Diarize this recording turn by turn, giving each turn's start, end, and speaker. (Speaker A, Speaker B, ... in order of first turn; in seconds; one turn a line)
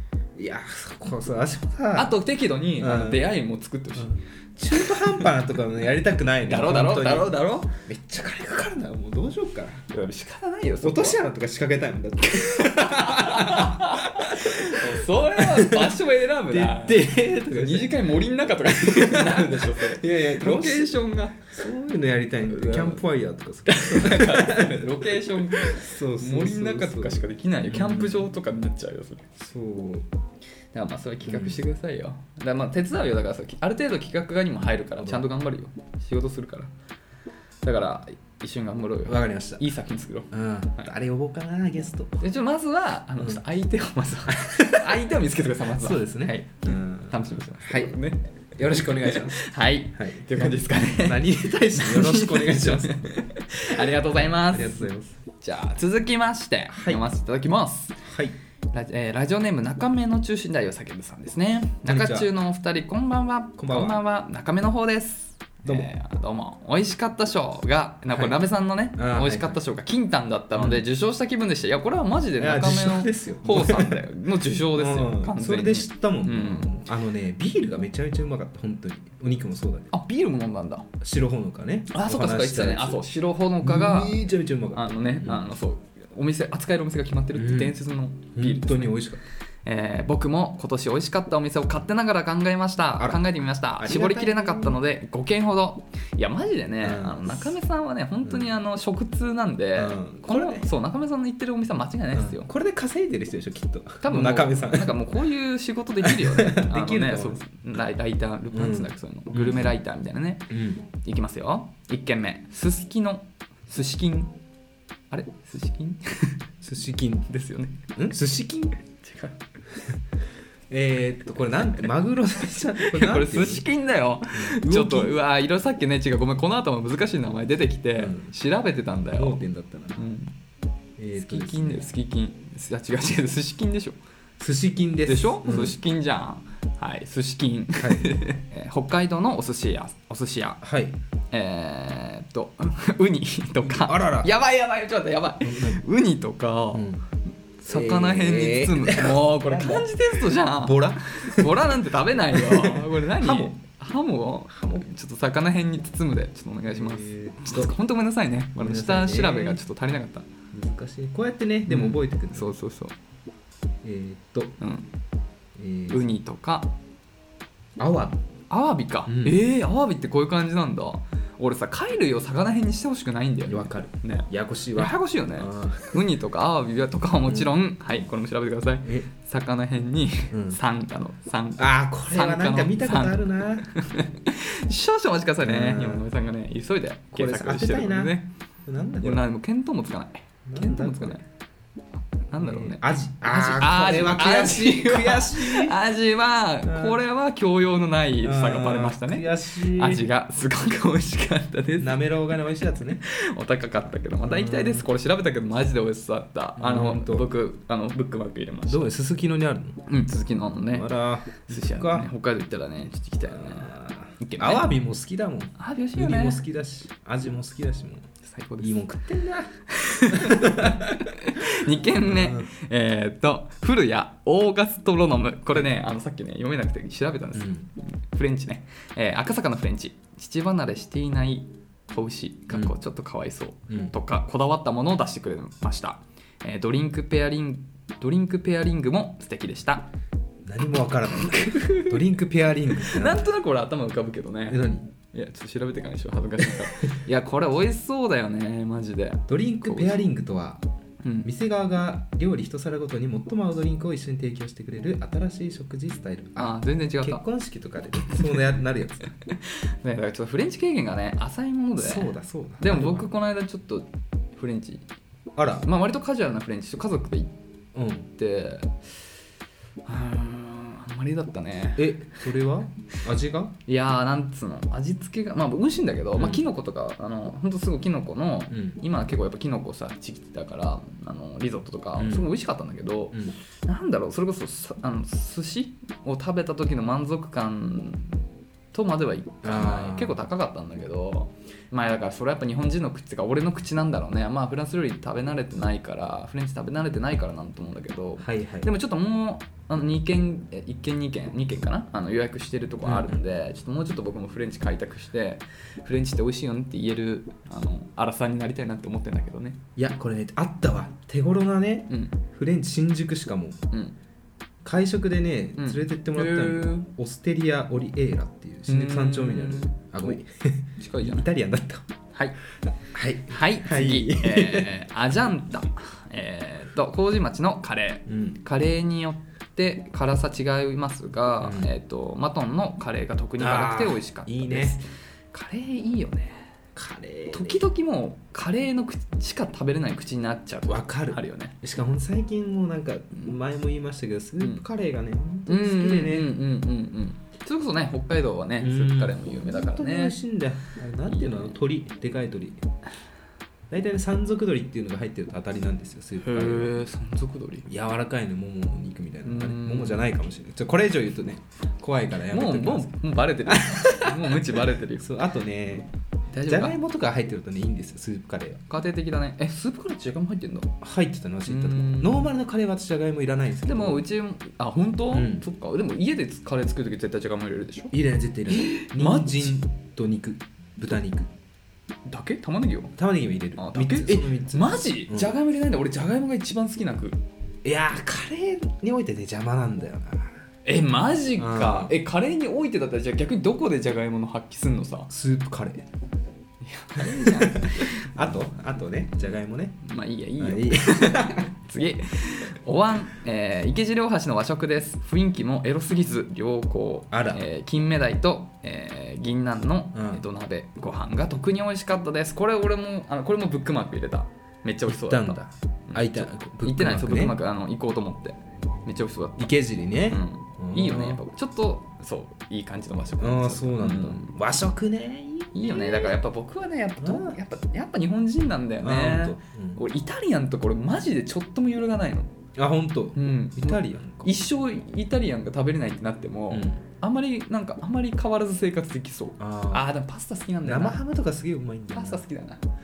Speaker A: 0.4-2.2
Speaker B: 1.9-4.2
Speaker A: 2.8-3.3
Speaker A: 4.0-7.3
Speaker B: 4.7-5.3
Speaker B: 6.5-7.7
Speaker A: 7.9-9.8
Speaker B: 9.9-11.2
Speaker A: 10.8-18.0
Speaker B: 12.3-21.5
Speaker A: 18.7-28.3
Speaker B: 22.5-23.0
Speaker B: 23.7-29.3
Speaker A: 29.4-30.1
Speaker B: 30.7-36.7
Speaker A: 31.2-31.6
Speaker A: 35.0-35.2
Speaker B: 37.6-40.9
Speaker A: 39.1-39.6
Speaker A: 40.3-42.2
Speaker B: 42.2-58.0
Speaker A: 44.3-45.1
Speaker A: 45.7-48.0
Speaker A: 48.5-49.4
Speaker A: 50.0-53.0
Speaker A: 53.7-55.1
Speaker A: 56.7-57.0
Speaker A: 58.0-58.4
Speaker B: 58.7-76.7
Speaker A: 61.9-62.3
Speaker A: 63.6-64.0
Speaker A: 65.7-65.9
Speaker A: 68.1-68.4
Speaker A: 69.0-69.6
Speaker A: 70.5-70.8
Speaker A: 72.4-74.0
Speaker A: 74.7-79.9
Speaker B: 79.9-80.9
Speaker A: 81.0-83.0
Speaker B: 81.9-84.2
Speaker A: 83.6-85.5
Speaker B: 84.7-89.0
Speaker A: 87.3-87.8
Speaker A: 88.3-89.2
Speaker B: 89.7-102.5
Speaker A: 93.0-93.2
Speaker A: 93.8-94.8
Speaker A: 96.8-97.6
Speaker A: 98.2-98.5
Speaker A: 99.8-100.7
Speaker A: 102.1-105.0
Speaker B: 104.0-110.5
Speaker A: 106.0-107.4
Speaker A: 108.5-109.8
Speaker A: 110.5-110.8
Speaker B: 111.0-114.3
Speaker B: 115.1-116.4
Speaker A: 116.6-117.3
Speaker B: 117.3-117.8
Speaker A: 118.0-118.8
Speaker B: 119.0-119.4
Speaker A: 120.7-123.7
Speaker B: 122.8-129.4
Speaker A: 124.3-125.2
Speaker A: 128.0-128.3
Speaker A: 129.1-130.1
Speaker B: 130.0-130.3
Speaker A: 131.0-131.8
Speaker B: 131.2-134.0
Speaker A: 134.4-135.8
Speaker B: 135.1-140.6
Speaker A: 137.8-138.2
Speaker A: 140.6-141.0
Speaker B: 141.3-146.9
Speaker A: 143.6-144.3
Speaker A: 145.4-145.8
Speaker A: 146.7-147.0
Speaker B: 147.6-160.3
Speaker A: 147.7-149.9
Speaker A: 150.6-151.8
Speaker A: 152.3-153.5
Speaker A: 154.5-154.9
Speaker A: 156.7-157.8
Speaker A: 158.6-159.6
Speaker A: 160.5-162.5
Speaker B: 161.7-162.9
Speaker A: 163.8-164.6
Speaker B: 164.6-164.9
Speaker A: 165.6-166.1
Speaker B: 165.9-166.7
Speaker A: 167.8-168.2
Speaker B: 168.5-188.3
Speaker A: 169.1-169.4
Speaker A: 173.5-176.0
Speaker A: 177.3-177.5
Speaker A: 180.3-180.6
Speaker A: 181.6-183.7
Speaker A: 185.4-186.1
Speaker A: 187.1-188.1
Speaker A: 188.7-189.2
Speaker B: 189.0-191.2
Speaker A: 190.5-191.2
Speaker B: 192.3-202.0
Speaker A: 192.4-195.8
Speaker A: 196.6-197.0
Speaker A: 198.2-200.1
Speaker A: 201.8-203.0
Speaker B: 203.0-208.9
Speaker A: 204.2-204.9
Speaker A: 206.6-207.3
Speaker A: 208.7-209.8
Speaker B: 209.9-214.7
Speaker A: 210.7-212.1
Speaker A: 213.3-218.1
Speaker B: 215.6-216.4
Speaker B: 218.2-218.8
Speaker A: 218.6-219.5
Speaker B: 219.7-239.9
Speaker A: 220.1-221.1
Speaker A: 222.1-222.5
Speaker A: 227.3-227.7
Speaker A: 233.7-233.9
Speaker A: 240.5-243.3
Speaker B: 241.2-242.0
Speaker B: 242.7-250.0
Speaker A: 244.5-244.9
Speaker A: 249.3-250.6
Speaker A: 251.2-259.1
Speaker B: 256.4-257.2
Speaker B: 258.1-258.4
Speaker B: 259.3-264.9
Speaker A: 261.8-263.1
Speaker A: 265.4-265.7
Speaker B: 265.6-267.3
Speaker A: 267.8-268.1
Speaker B: 268.2-268.8
Speaker B: 269.9-272.2
Speaker A: 271.8-273.5
Speaker B: 273.7-288.2
Speaker A: 276.1-276.4
Speaker A: 278.5-278.8
Speaker A: 282.0-282.3
Speaker A: 283.1-283.4
Speaker B: 288.7-309.6
Speaker A: 289.4-290.2
Speaker A: 298.2-298.7
Speaker A: 302.8-303.2
Speaker A: 309.8-313.6
Speaker B: 313.7-314.0
Speaker A: 314.6-321.9
Speaker B: 315.6-316.9
Speaker B: 318.7-320.2
Speaker B: 320.8-321.3
Speaker A: 322.6-324.7
Speaker B: 323.3-336.5
Speaker A: 328.1-328.4
Speaker A: 331.4-331.7
Speaker A: 333.4-334.8
Speaker A: 336.8-337.6
Speaker B: 337.3-341.6
Speaker A: 340.7-346.3
Speaker B: 345.5-350.2
Speaker A: 348.6-352.6
Speaker B: 351.1-351.5
Speaker A: 353.7-356.8
Speaker B: 356.2-357.7
Speaker A: 357.7-362.9
Speaker B: 359.2-360.1
Speaker B: 362.3-365.1
Speaker A: 363.5-365.9
Speaker B: 366.3-366.8
Speaker A: 366.5-368.6
Speaker B: 368.7-370.8
Speaker A: 370.8-374.0
Speaker B: 371.5-372.3
Speaker B: 373.6-377.9
Speaker A: 375.1-375.4
Speaker A: 377.9-381.3
Speaker B: 378.5-379.5
Speaker B: 382.1-382.9
Speaker A: 383.0-385.3
Speaker B: 383.6-387.2
Speaker A: 387.6-390.4
Speaker B: 390.6-395.1
Speaker A: 391.4-391.9
Speaker A: 395.1-395.9
Speaker B: 396.6-398.1
Speaker A: 397.0-399.8
Speaker B: 399.8-419.5
Speaker A: 400.4-401.5
Speaker A: 407.1-407.4
Speaker A: 409.9-410.2
Speaker A: 414.9-417.4
Speaker A: 419.4-421.2
Speaker B: 420.1-424.4
Speaker A: 423.2-426.2
Speaker B: 425.5-432.3
Speaker A: 427.0-427.4
Speaker A: 428.8-429.8
Speaker A: 432.6-434.4
Speaker B: 433.1-441.0
Speaker A: 436.5-436.8
Speaker A: 439.4-439.9
Speaker A: 440.6-442.2
Speaker B: 441.9-442.6